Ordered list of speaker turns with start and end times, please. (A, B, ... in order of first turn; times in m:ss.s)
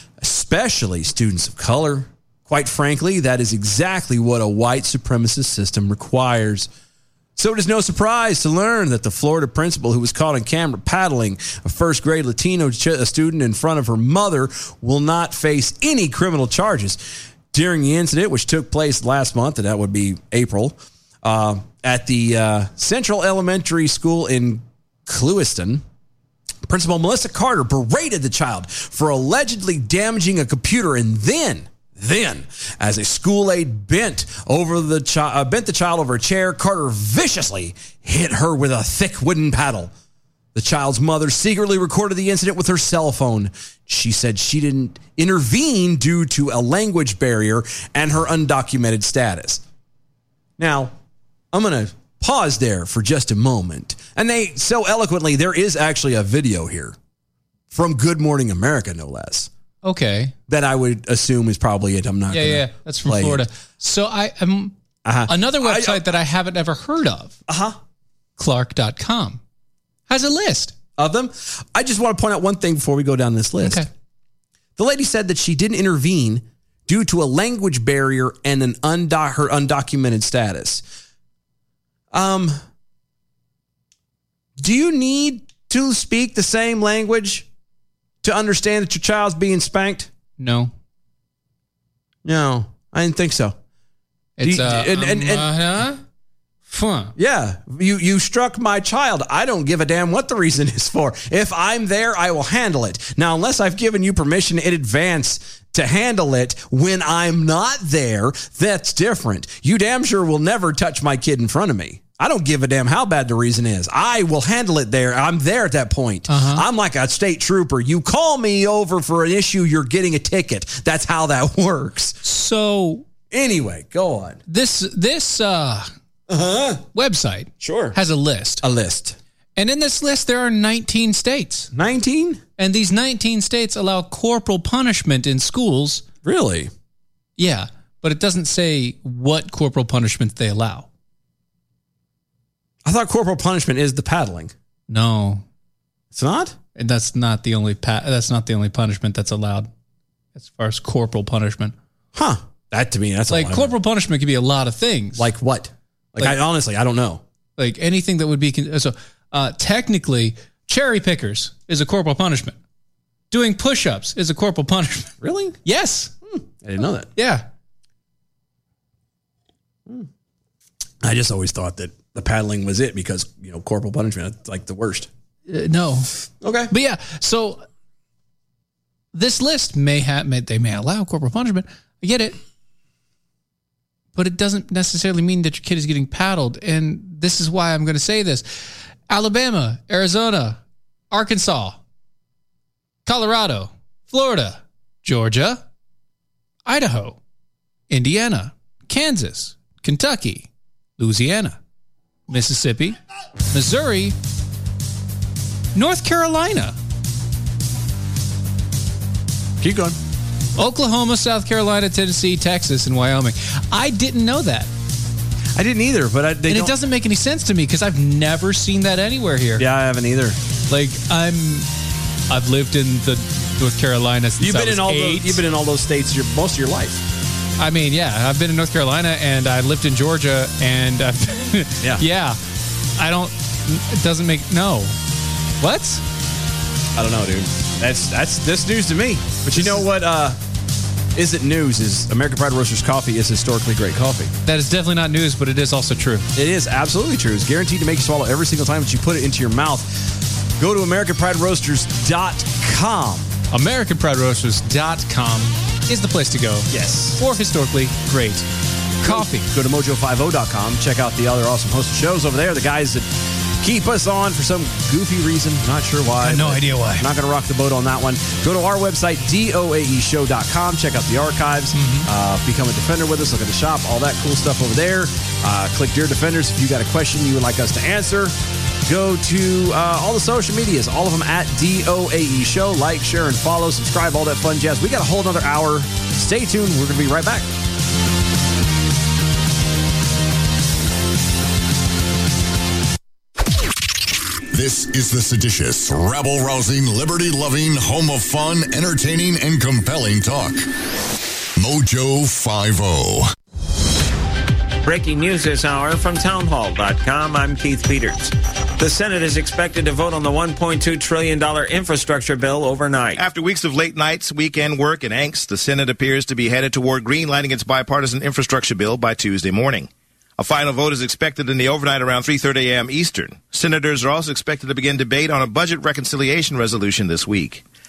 0:00.2-0:06.7 A
0:07.4-0:17.0 A
0:17.5-0:25.8 A
0:26.7-0:39.9 A
0:40.6-0:49.6 A
0:50.6-0:50.9 A
0:51.5-0:57.0 A
0:57.7-0:59.5 A
0:59.8-1:00.3 B
1:00.5-1:03.4 A
1:02.3-1:04.8 B
1:05.0-1:06.0 A
1:05.3-1:07.4 B
1:07.5-1:07.8 A
1:08.4-1:09.4 B
1:10.1-1:10.7 B
1:11.0-1:13.9 A
1:13.6-1:13.9 B
1:14.8-1:20.8 A
1:22.1-1:22.6 A
1:24.6-1:27.5 A
1:28.2-1:30.1 A
1:30.4-1:30.7 B
1:32.2-1:33.6 A
1:34.4-1:36.0 B
1:34.4-1:35.5 A
1:36.7-1:37.1 B
1:37.2-2:02.2 A
1:56.3-1:56.6 B
2:02.2-2:03.0 B
2:03.3-2:04.4 A
2:04.5-2:05.9 B
2:06.3-2:06.8 A
2:06.9-2:08.6 B
2:07.6-2:08.0 A
2:08.6-2:09.2 A
2:09.6-2:11.7 B
2:11.7-2:12.4 A
2:12.6-2:16.0 B
2:16.2-2:16.7 A
2:17.4-2:20.9 B
2:22.8-2:24.5 A
2:24.9-2:25.4 B
2:26.1-2:26.6 A
2:26.8-2:29.7 B
2:30.4-2:31.8 B
2:32.1-2:33.7 A
2:33.3-2:35.3 B
2:35.2-2:37.2 A
2:37.6-2:42.6 B
2:43.3-2:45.1 B
2:45.2-2:45.6 A
2:45.6-2:46.1 B
2:46.3-2:47.1 A
2:47.2-2:47.5 B
2:51.0-2:55.1 A
2:55.5-2:56.1 B
2:56.4-2:56.7 A
2:56.7-2:57.6 B
2:59.1-3:02.4 B
3:04.2-3:08.5 B
3:09.1-3:10.6 B
3:11.1-3:11.8 B
3:13.1-3:15.6 B
3:16.7-3:17.2 B
3:17.9-3:21.6 B
3:22.3-3:23.0 B
3:23.5-3:24.2 B
3:25.8-3:26.8 B
3:29.6-3:30.0 A
3:30.6-3:34.7 B
3:35.6-3:36.8 A
3:36.5-3:39.7 B
3:39.6-3:40.4 A
3:40.7-3:41.7 B
3:42.3-3:45.4 B
3:44.4-3:47.0 A
3:47.6-3:52.4 B
3:53.0-3:55.0 B
3:55.6-3:56.0 B
3:57.0-4:00.4 A
3:59.5-3:59.9 B
4:01.2-4:04.3 A
4:04.5-4:06.3 B
4:06.4-4:13.3 A
4:13.5-4:18.5 B
4:16.7-4:17.2 A
4:19.0-4:19.5 B
4:19.0-4:23.1 A
4:23.6-4:47.5 A
4:26.2-4:27.1 B
4:31.7-4:32.1 B
4:54.5-5:00.7 C
5:01.6-5:03.3 C
5:04.8-5:13.2 D
5:13.2-5:27.6 E